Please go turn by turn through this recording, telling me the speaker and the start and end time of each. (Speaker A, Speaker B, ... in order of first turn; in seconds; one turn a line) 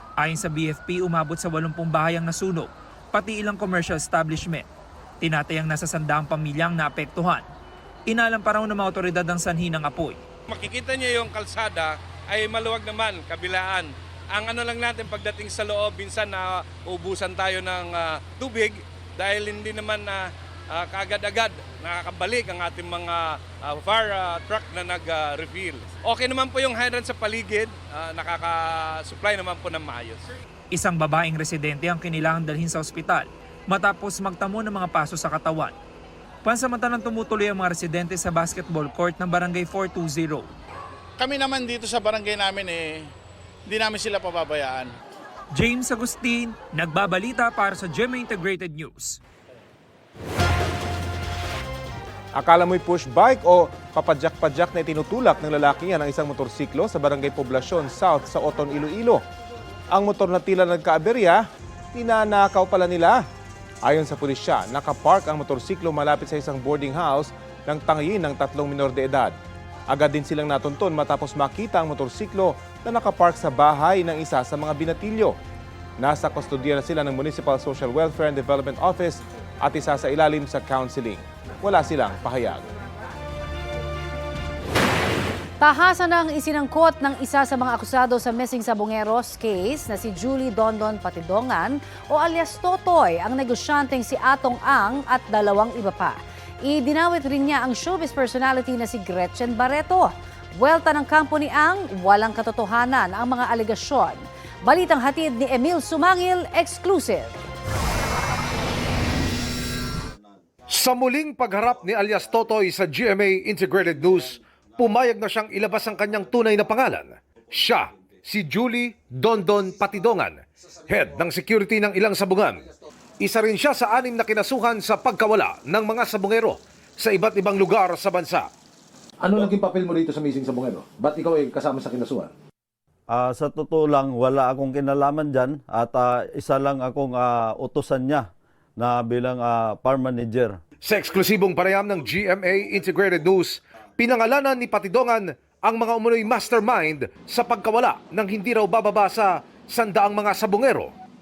Speaker A: 0.2-4.6
Speaker A: 5.2-7.4
Speaker A: 8.1-10.2
Speaker B: 10.5-30.2
Speaker A: 30.7-35.7
Speaker A: 36.4-40.5
Speaker C: 41.2-43.0
Speaker C: 43.7-44.9
Speaker A: 45.5-49.2
Speaker D: 52.4-59.2
Speaker D: 59.9-61.4
Speaker D: 61.9-63.2
Speaker D: 63.8-69.3
Speaker D: 69.9-75.4
Speaker D: 76.0-82.7
Speaker E: 85.6-107.3
Speaker F: 110.7-122.6
Speaker F: 123.2-128.5
Speaker G: 129.2-132.3
Speaker H: 133.1-138.2
Speaker H: 138.8-140.6
Speaker F: 140.8-150.9